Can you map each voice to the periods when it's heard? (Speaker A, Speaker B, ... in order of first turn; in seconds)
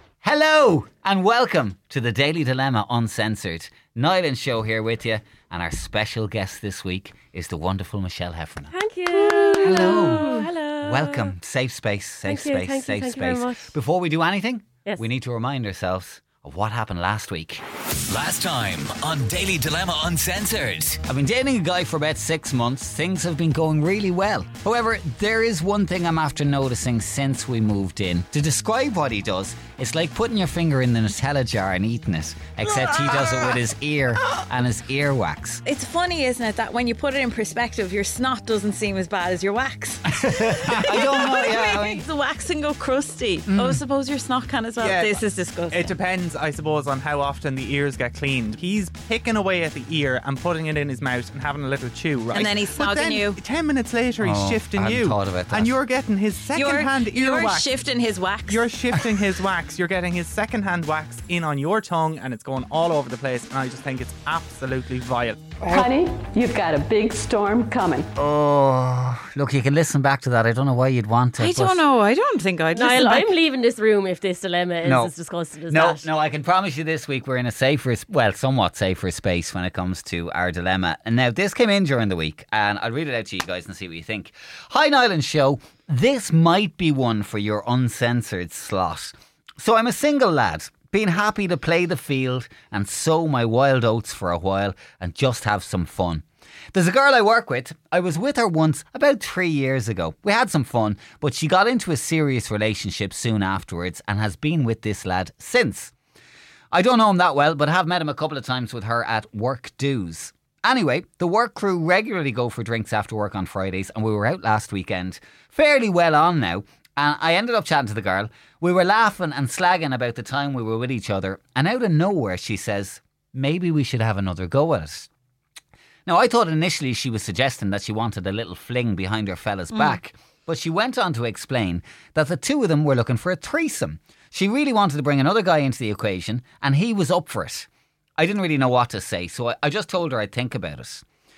Speaker A: 0.2-17.6, 21.1-35.6, 40.2-42.0, 43.5-43.8, 54.2-55.7, 68.2-71.8, 74.8-75.1, 75.7-105.9, 106.7-125.1, 126.1-141.0
Speaker B: 8.7-11.3, 12.2-13.7, 72.7-76.1
Speaker C: 9.4-10.3, 32.6-33.6, 35.6-46.0, 52.3-53.4, 56.5-58.7, 71.4-73.3, 129.7-130.0
Speaker D: 18.1-21.0
Speaker E: 44.8-57.8, 58.5-65.7
Speaker F: 65.6-68.1